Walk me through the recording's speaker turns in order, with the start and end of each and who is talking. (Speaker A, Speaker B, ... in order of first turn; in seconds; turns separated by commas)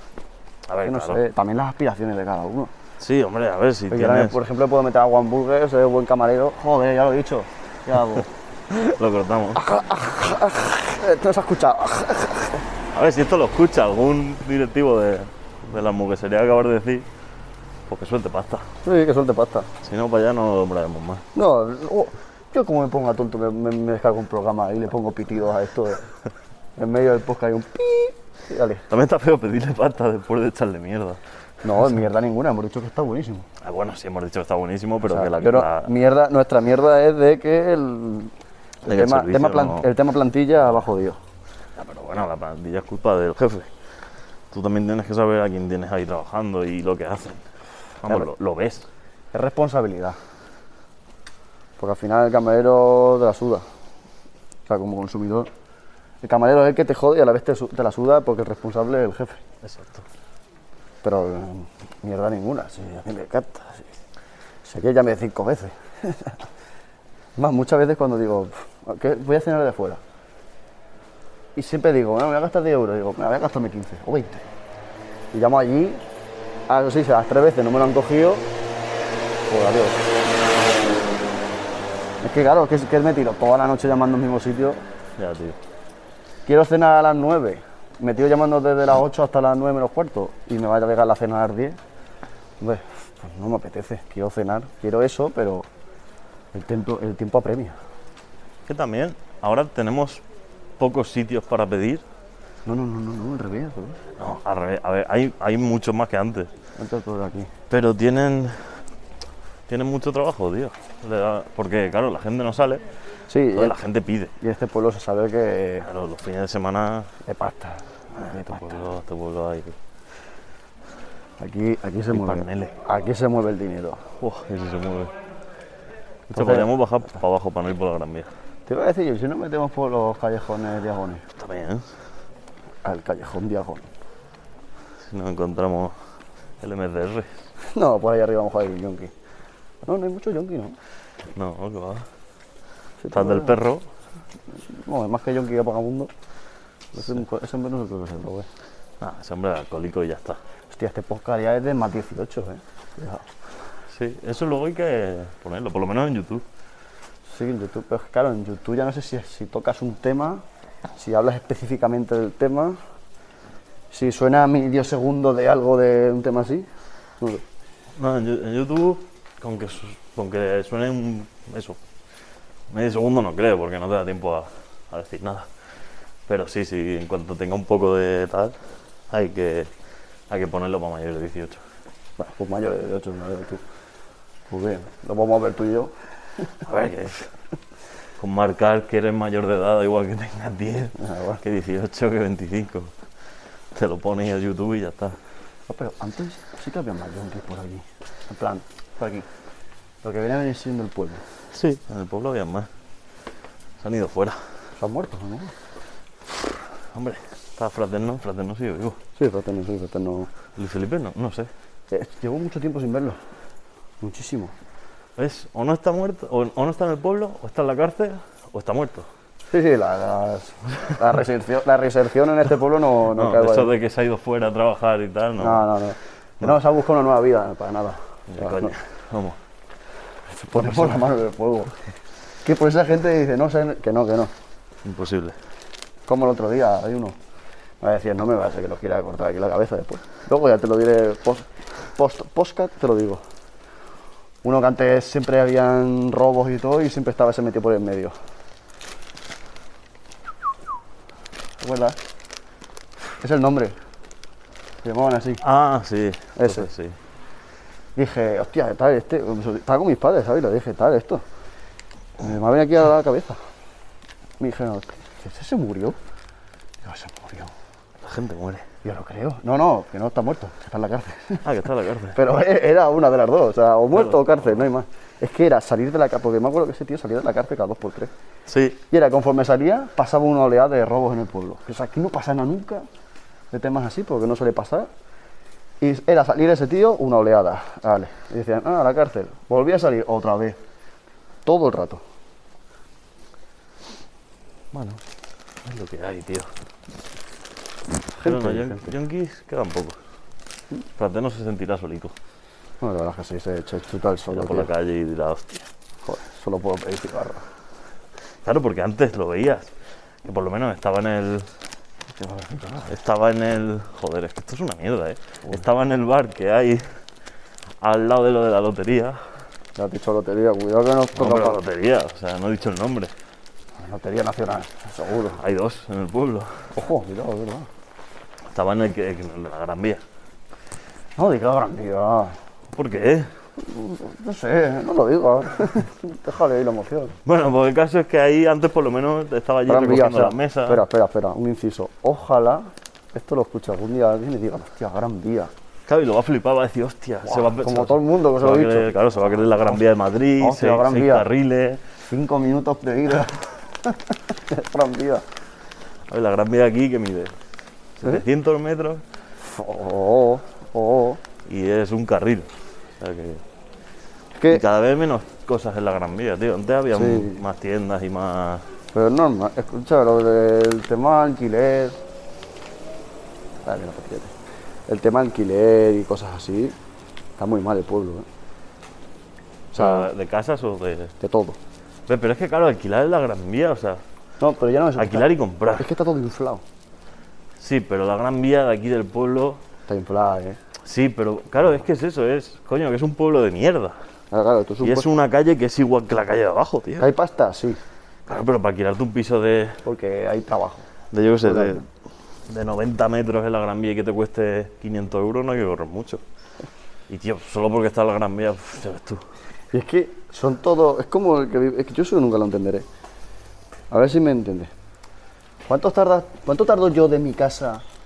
Speaker A: 0.7-1.2, Speaker B: 0.8-2.7, Speaker A: 3.0-4.4, Speaker B: 3.9-8.3, Speaker A: 8.7-9.6, Speaker B: 9.6-12.6, Speaker A: 12.9-17.1, Speaker A: 17.9-18.7, Speaker B: 18.8-19.7, Speaker A: 19.8-21.2, Speaker B: 21.4-26.0, Speaker B: 26.8-28.9, Speaker A: 28.9-31.2, Speaker B: 31.6-33.5, Speaker A: 33.6-35.9, Speaker B: 35.1-38.3, Speaker B: 38.9-41.2, Speaker A: 38.9-39.9, Speaker A: 41.8-43.7, Speaker A: 44.5-47.5, Speaker A: 48.0-48.9, Speaker B: 49.3-50.2, Speaker B: 51.8-53.6, Speaker B: 54.7-55.5, Speaker B: 56.2-59.4, Speaker A: 59.6-60.0, Speaker B: 61.0-63.9, Speaker B: 64.6-66.4, Speaker B: 67.4-70.0, Speaker B: 71.6-74.5, Speaker B: 75.3-76.0, Speaker B: 76.7-78.5, Speaker B: 79.5-80.0, Speaker B: 82.2-84.8, Speaker A: 85.2-85.6, Speaker B: 86.5-91.8, Speaker B: 92.6-95.7, Speaker B: 96.5-97.8, Speaker A: 98.7-100.2, Speaker A: 100.8-102.0, Speaker B: 102.7-104.0, Speaker A: 104.2-106.5, Speaker B: 106.8-107.5, Speaker A: 107.7-108.8, Speaker A: 109.7-112.8, Speaker B: 113.3-113.8, Speaker A: 113.5-114.3, Speaker B: 114.4-115.9, Speaker A: 115.8-117.1, Speaker B: 117.2-118.7, Speaker A: 118.2-119.8, Speaker B: 121.4-124.0, Speaker A: 122.1-122.8, Speaker A: 124.2-125.1, Speaker A: 126.3-128.3, Speaker B: 126.3-126.7, Speaker B: 128.7-131.2, Speaker A: 131.4-131.9, Speaker B: 132.8-133.9, Speaker A: 135.0-135.9, Speaker A: 136.6-137.4, Speaker B: 137.6-139.1, Speaker B: 139.8-140.8, Speaker A: 141.3-142.1, Speaker B: 143.0-143.6, Speaker A: 143.1-143.9, Speaker B: 144.5-146.1, Speaker B: 146.9-148.5, Speaker A: 149.0-150.4, Speaker B: 150.7-153.2, Speaker A: 153.9-156.4, Speaker B: 157.3-160.4, Speaker B: 161.0-162.8, Speaker B: 163.9-166.7, Speaker A: 167.9-171.8, Speaker A: 172.7-175.5, Speaker A: 176.3-178.6, Speaker A: 179.1-179.7, Speaker A: 180.3-181.6, Speaker B: 182.2-183.6, Speaker B: 184.5-185.9, Speaker A: 186.6-187.3, Speaker A: 188.2-192.9, Speaker B: 191.0-191.4, Speaker A: 193.7-195.2, Speaker B: 195.7-199.3, Speaker B: 200.0-201.2, Speaker A: 201.5-202.7, Speaker A: 203.8-204.4, Speaker B: 204.8-205.5, Speaker A: 206.9-209.0, Speaker B: 209.2-210.3, Speaker A: 210.6-211.5, Speaker B: 211.9-213.2, Speaker B: 214.0-214.5, Speaker A: 215.2-219.1, Speaker B: 219.5-223.7, Speaker A: 223.1-225.7, Speaker B: 225.4-228.7, Speaker A: 228.3-229.4, Speaker B: 230.3-231.7, Speaker A: 230.6-231.0, Speaker B: 232.4-234.3, Speaker A: 234.8-235.4, Speaker B: 236.1-237.2, Speaker B: 237.8-243.2, Speaker B: 244.4-248.1, Speaker B: 251.6-252.0, Speaker B: 253.2-253.8, Speaker B: 254.8-255.4, Speaker A: 255.4-257.0, Speaker B: 256.4-256.7, Speaker B: 258.0-261.2, Speaker B: 262.2-263.4, Speaker B: 264.4-266.0, Speaker B: 266.8-267.5, Speaker A: 268.0-268.6, Speaker B: 268.8-271.5, Speaker A: 271.4-272.2, Speaker B: 272.1-278.1, Speaker A: 273.9-274.6, Speaker A: 278.5-278.8, Speaker B: 278.9-282.9, Speaker B: 283.5-284.9, Speaker B: 285.8-290.6, Speaker B: 291.5-292.0, Speaker A: 294.7-295.0, Speaker A: 295.6-296.5, Speaker B: 298.1-298.9, Speaker A: 298.2-300.0, Speaker A: 301.0-302.1, Speaker B: 302.8-304.7, Speaker A: 304.3-305.6, Speaker B: 306.1-307.4, Speaker A: 308.4-309.7, Speaker A: 310.2-311.5, Speaker B: 312.1-312.9, Speaker A: 312.8-316.9, Speaker A: 317.8-319.2, Speaker B: 319.8-321.6, Speaker A: 321.1-323.1, Speaker B: 323.8-325.4, Speaker A: 325.4-326.5, Speaker B: 326.7-327.7, Speaker A: 328.5-330.0, Speaker B: 331.2-332.4, Speaker A: 332.7-333.3, Speaker B: 333.6-337.1, Speaker A: 337.2-340.8, Speaker B: 339.7-345.5, Speaker A: 345.9-351.8, Speaker B: 347.3-348.9, Speaker B: 350.4-351.3, Speaker B: 352.1-355.2, Speaker A: 356.1-357.4, Speaker A: 358.0-359.0, Speaker B: 359.4-361.2, Speaker A: 361.4-363.4, Speaker B: 364.4-364.6, Speaker A: 364.5-368.6, Speaker B: 366.9-367.4, Speaker B: 368.9-372.0, Speaker B: 373.6-374.3, Speaker B: 374.9-376.8, Speaker B: 377.4-378.3, Speaker B: 379.7-380.1, Speaker A: 379.8-381.1, Speaker B: 381.2-381.6, Speaker A: 382.1-384.0, Speaker B: 384.4-386.6, Speaker A: 385.0-385.9, Speaker A: 387.6-389.6, Speaker B: 389.9-390.6, Speaker A: 390.8-394.0, Speaker B: 394.3-395.1, Speaker A: 394.8-397.1, Speaker B: 397.0-397.8, Speaker A: 398.3-399.8, Speaker B: 399.8-400.9, Speaker A: 401.1-401.9, Speaker B: 401.4-401.8, Speaker A: 402.5-406.2, Speaker A: 407.1-409.2, Speaker B: 409.7-412.9, Speaker B: 413.9-414.7, Speaker B: 415.7-417.8